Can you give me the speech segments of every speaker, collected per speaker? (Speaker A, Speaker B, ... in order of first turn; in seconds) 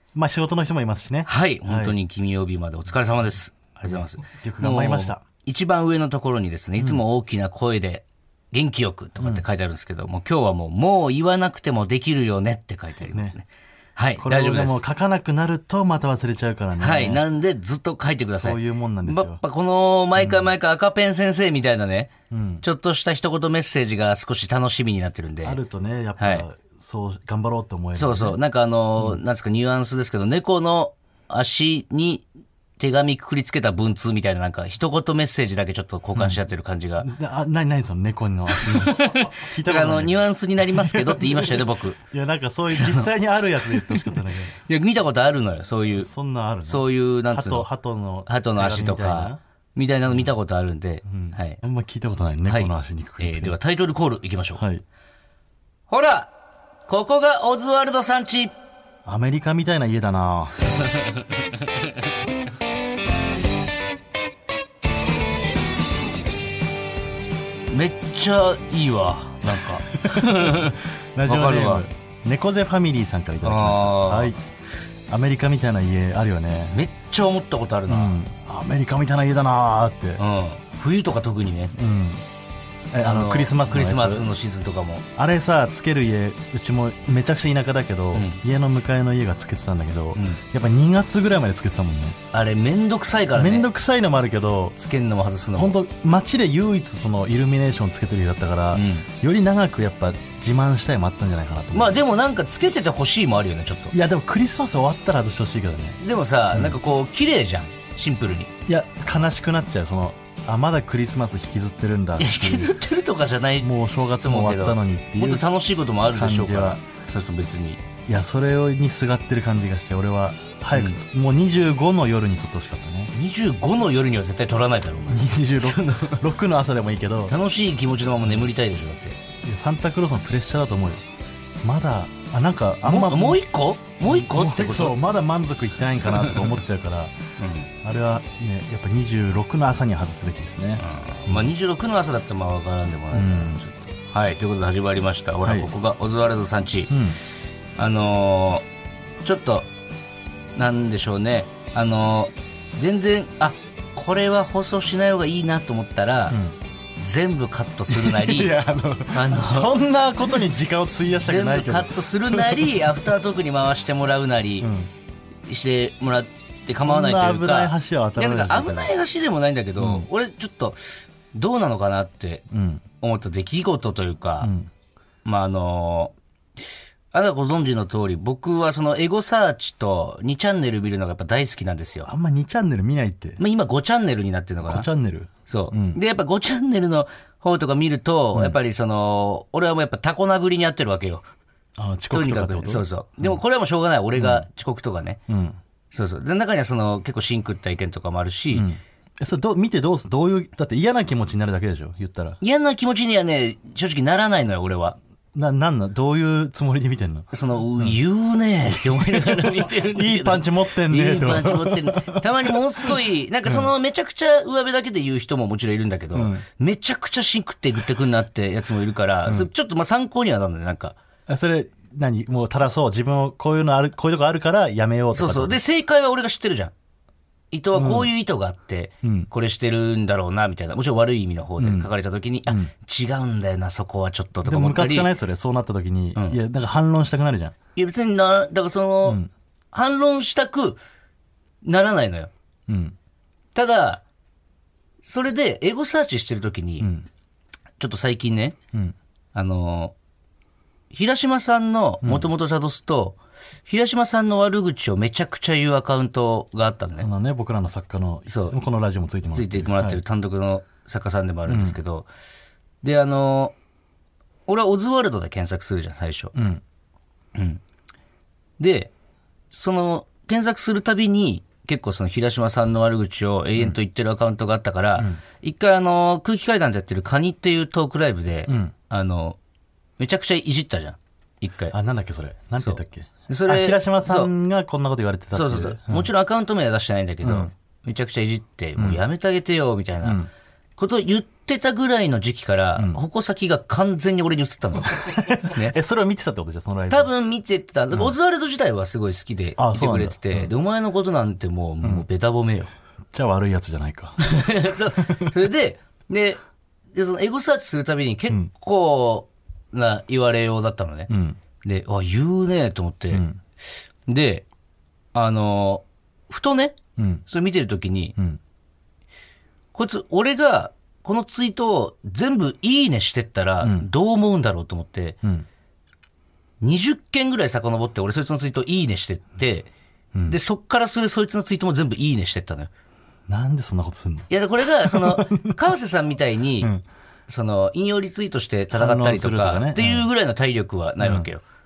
Speaker A: 0.1-2.0, 3.9-5.2, 9.2-9.4, 14.2-17.2, 18.3-19.4, 20.2-20.5, 22.3-22.6, 25.4-28.4, 36.2-36.4, 37.0-44.5, 46.0-49.4, 51.1-53.6, 54.6-54.8, 59.0-60.6, 69.5-74.4, 75.1-76.8, 77.9-80.2, 81.8-82.2, 82.9-84.3, 85.2-92.2, 93.4-94.8, 95.5-102.0, 103.9-106.0, 106.5-106.8, 108.7-112.8, 113.6-115.5, 116.1-116.8, 118.1-123.1, 125.1-127.3, 129.4-131.1, 131.6-133.4, 134.1-137.2, 137.8-141.5, 143.1-143.6, 145.4-145.7, 146.9-147.2, 156.3-156.6, 157.9-162.9, 164.6-164.9, 166.8-169.0, 169.8-170.1, 172.5-172.8, 174.4-174.7, 182.1-183.4, 184.6-186.0, 191.8-193.4, 194.2-194.4, 195.3-195.6, 198.5-202.4, 205.3-208.0, 208.6-212.9, 213.5-213.7, 216.1-216.4, 221.3-225.6, 227.7-228.1, 229.0-229.3, 231.6-231.9, 234.4-237.6, 242.7-243.0, 246.8-247.1, 252.0-252.3, 257.0-260.0, 261.5-261.8, 266.4-266.6, 278.5-278.7, 281.7-286.1, 287.2-287.5, 288.8-289.0, 290.0-290.3, 294.9-297.1, 299.6-300.5, 301.8-302.1, 303.1-304.3, 311.1-311.4, 313.1-313.4, 317.0-317.2, 323.6-323.9, 333.3-335.6, 338.7-340.1, 341.0-341.3
Speaker B: 1.3-14.8, 16.8-25.6, 26.2-26.4, 27.9-32.3, 32.8-37.1, 38.6-42.0, 42.7-43.1, 43.6-46.1, 46.6-47.7, 48.3-51.6, 52.5-54.6, 55.9-56.3, 56.9-58.5, 60.9-61.2, 67.7-71.8, 73.4-74.3, 76.7-78.2, 80.2-81.7, 83.0-85.0, 90.2-90.4, 92.3-93.7, 94.8-95.8, 98.7-99.1, 101.7-103.9, 106.0-108.5, 112.2-113.7, 114.2-117.8, 120.7-121.0, 123.1-126.2, 127.3-129.2, 132.8-135.0, 136.2-136.4, 137.4-137.7, 140.8-147.0, 147.8-148.7, 149.2-149.7, 150.6-156.4, 157.0-158.6, 159.1-159.8, 161.2-164.7, 165.5-172.5, 173.0-174.5, 175.2-176.1, 177.1-182.1, 183.4-184.9, 185.5-191.3, 192.1-195.2, 195.9-198.7, 202.4-205.0, 207.3-221.0, 225.1-226.7, 227.5-235.1, 237.8-239.2, 239.7-240.8, 241.6-242.3, 243.6-244.0, 245.0-246.9, 247.8-248.6, 249.3-249.9, 250.9-257.1, 258.3-258.6, 259.3-262.1, 262.8-263.6, 264.5-266.3, 267.4-267.6, 268.6-268.9, 269.5-279.4, 280.0-281.8, 282.6-284.3, 285.3-290.2, 290.8-295.8, 296.9-302.7, 304.2-306.4, 306.9-311.1, 311.6-313.2, 314.1-314.5, 315.1-318.1, 319.7-325.2, 326.6-329.7, 330.3-332.7, 334.3-336.7, 337.3-341.4